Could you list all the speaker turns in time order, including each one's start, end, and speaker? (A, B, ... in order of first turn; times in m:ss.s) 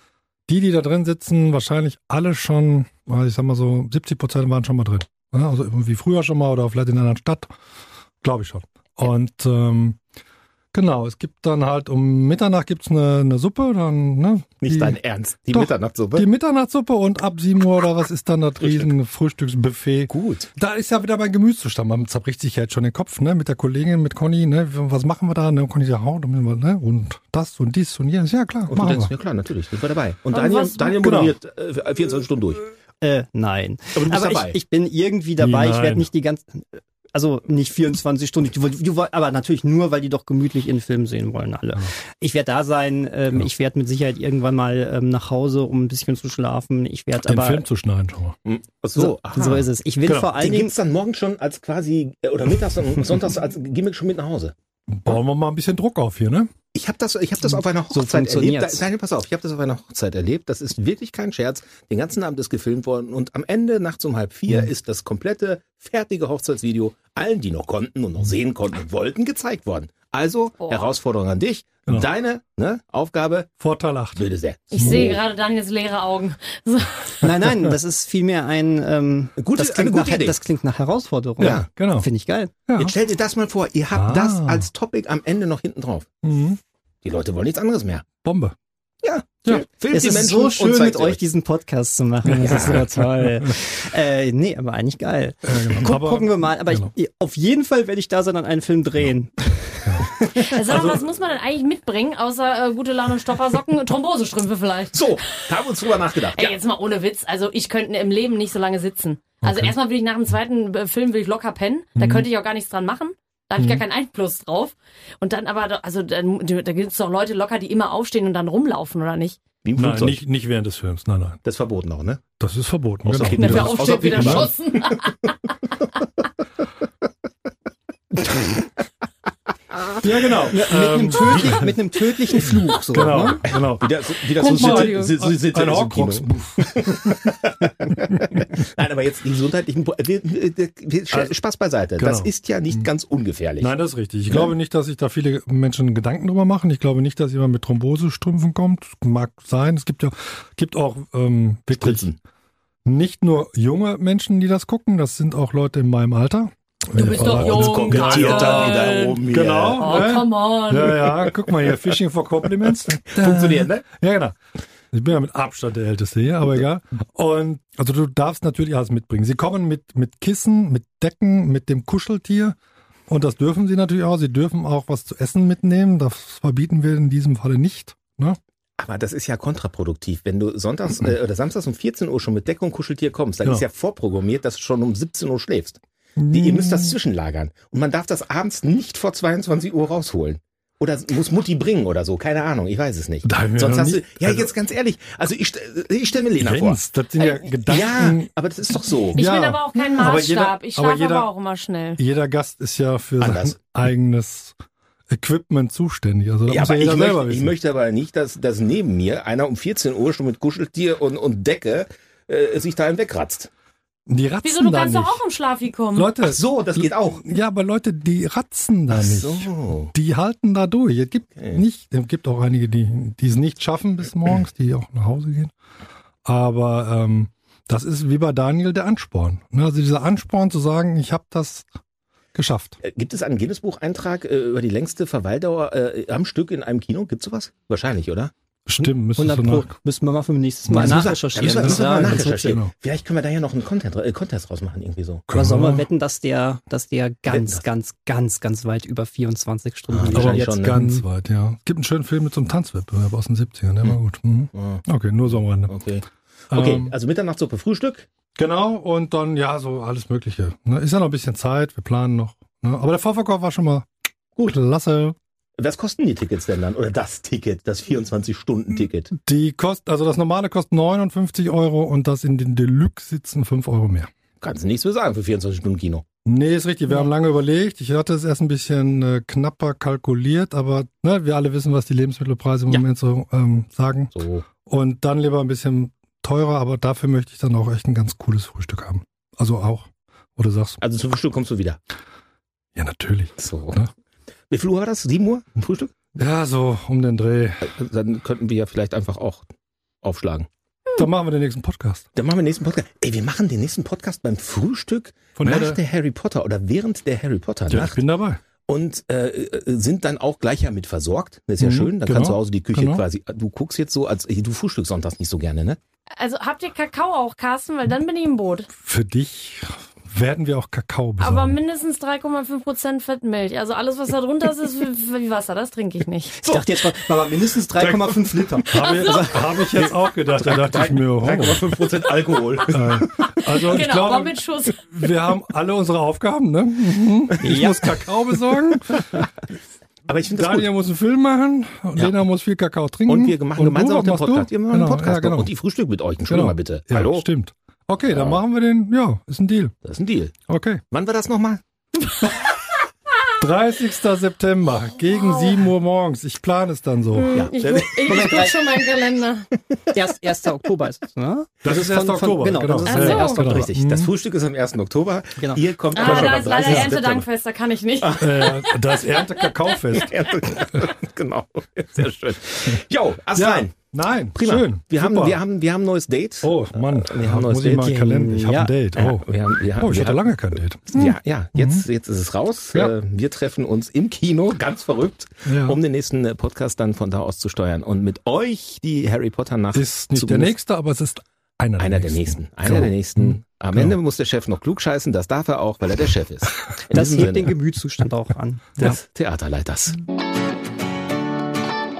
0:00.5-0:07.5 A
0:08.2-0:10.0 A
0:10.7-0:15.0 A
0:14.6-0:16.2 B
0:15.5-0:29.1 A
0:20.1-0:20.5 B
0:28.7-0:32.6 B
0:30.3-0:31.0 C
0:31.0-0:31.4 A
0:33.0-0:47.6 D
0:33.9-0:34.6 B
0:35.4-0:36.1 A
0:47.2-0:48.4 A
0:48.4-0:49.7 B
0:48.9-0:50.7 D
0:50.3-0:54.5 B
0:54.9-0:56.5 A
0:56.7-1:13.5 B
0:57.9-0:58.8 D
1:10.7-1:10.9 C
1:13.6-1:14.2 A
1:14.1-1:15.2 B
1:14.7-1:17.2 C
1:14.8-1:15.1 A
1:17.2-1:22.5 D
1:19.4-1:20.4 B
1:21.4-1:21.7 B
1:21.4-1:22.1 A
1:22.7-1:22.9 A
1:22.8-1:26.1 B
1:23.9-1:24.7 A
1:26.2-1:26.6 A
1:27.0-1:28.1 B
1:28.2-1:28.5 A
1:29.0-1:31.2 B
1:29.9-1:40.6 D
1:32.2-1:33.5 A
1:32.4-1:32.8 B
1:35.4-1:36.9 A
1:39.8-1:40.1 A
1:40.4-1:45.6 C
1:40.6-1:41.0 A
1:44.9-1:46.6 B
1:46.3-1:59.4 C
1:49.4-1:49.7 A
1:52.0-1:52.2 A
1:53.6-1:53.8 A
1:59.6-2:00.2 B
1:59.8-2:01.4 A
2:01.4-2:02.2 B
2:02.4-2:04.5 A
2:03.0-2:05.1 B
2:03.2-2:05.3 C
2:08.1-2:08.6 B
2:10.0-2:11.7 A
2:10.5-2:13.5 D
2:12.4-2:17.3 A
2:13.8-2:23.7 B
2:14.4-2:15.2 C
2:21.1-2:21.4 A
2:22.0-2:22.9 A
2:23.6-2:32.0 A
2:31.8-2:32.2 B
2:32.8-2:44.4 A
2:37.0-2:39.2 C
2:37.0-2:40.2 B
2:39.7-2:41.1 C
2:42.9-2:43.8 B
2:44.9-2:52.6 A
2:53.1-2:58.4 A
2:58.8-3:19.2 B
3:06.2-3:07.0 A
3:13.2-3:14.5 A
3:16.4-3:18.3 A
3:19.1-3:21.3 A
3:19.1-3:22.0 C
3:22.0-3:24.5 A
3:23.2-3:23.5 B
3:25.1-3:27.5 A
3:26.5-3:33.5 B
3:34.1-3:35.2 A
3:34.4-3:36.1 C
3:35.9-3:45.5 A
3:36.2-3:37.2 B
3:38.9-3:39.9 B
3:46.2-3:51.7 A
3:52.3-3:52.8 A
3:52.8-3:58.3 B
3:58.7-3:59.7 A
3:58.8-4:02.6 D
4:00.7-4:02.7 A
4:00.7-4:05.2 B
4:05.3-4:05.8 A
4:05.3-4:11.0 D
4:07.3-4:07.6 B
4:09.9-4:10.8 B
4:10.1-4:15.7 A
4:14.5-4:18.1 B
4:16.5-4:16.9 A
4:18.3-4:23.8 A
4:24.4-4:25.2 A
4:25.6-4:29.1 B
4:29.2-4:34.1 A
4:34.4-4:36.0 B
4:36.2-4:44.1 A
4:44.1-4:44.4 B
4:44.6-4:50.8 A
4:50.8-4:51.8 B
4:52.7-4:53.9 A
4:53.4-4:53.8 B
4:54.5-4:56.0 B
4:56.2-4:57.7 A
4:57.6-4:59.5 B
5:00.0-5:00.5 B
5:00.9-5:02.1 A
5:02.2-5:08.0 B
5:05.3-5:05.8 A
5:07.7-5:08.4 A
5:08.6-5:15.8 B
5:11.6-5:13.0 A
5:16.2-5:18.7 C
5:18.8-5:21.6 A
5:21.2-5:26.4 C
5:26.4-5:29.4 D
5:27.8-5:28.1 A
5:28.6-5:31.8 A
5:29.7-5:33.3 B
5:32.6-5:39.2 A
5:33.5-5:34.8 C
5:37.4-5:37.8 D
5:40.0-5:40.7 B
5:40.3-5:45.5 A
5:43.1-5:47.2 B
5:46.3-5:49.8 A
5:48.1-5:48.4 B
5:49.8-5:50.3 B
5:50.5-5:50.8 A
5:50.9-5:51.6 B
5:53.4-5:57.4 A
5:57.2-5:59.5 C
5:57.3-5:58.5 B
5:58.0-5:58.6 D
5:59.9-6:03.7 D
6:01.6-6:04.1 A
6:02.9-6:03.4 C
6:03.0-6:07.3 B
6:05.4-6:05.6 D
6:05.9-6:09.5 C
6:06.0-6:07.0 A
6:08.0-6:08.6 B
6:08.2-6:10.1 A
6:09.9-6:13.7 B
6:13.4-6:15.4 A
6:14.3-6:17.9 B
6:16.4-6:21.8 A
6:17.7-6:18.7 D
6:18.9-6:30.5 B
6:25.4-6:25.8 A
6:29.7-6:34.0 A
6:31.8-6:37.5 B
6:36.9-6:38.9 D
6:38.8-6:40.0 B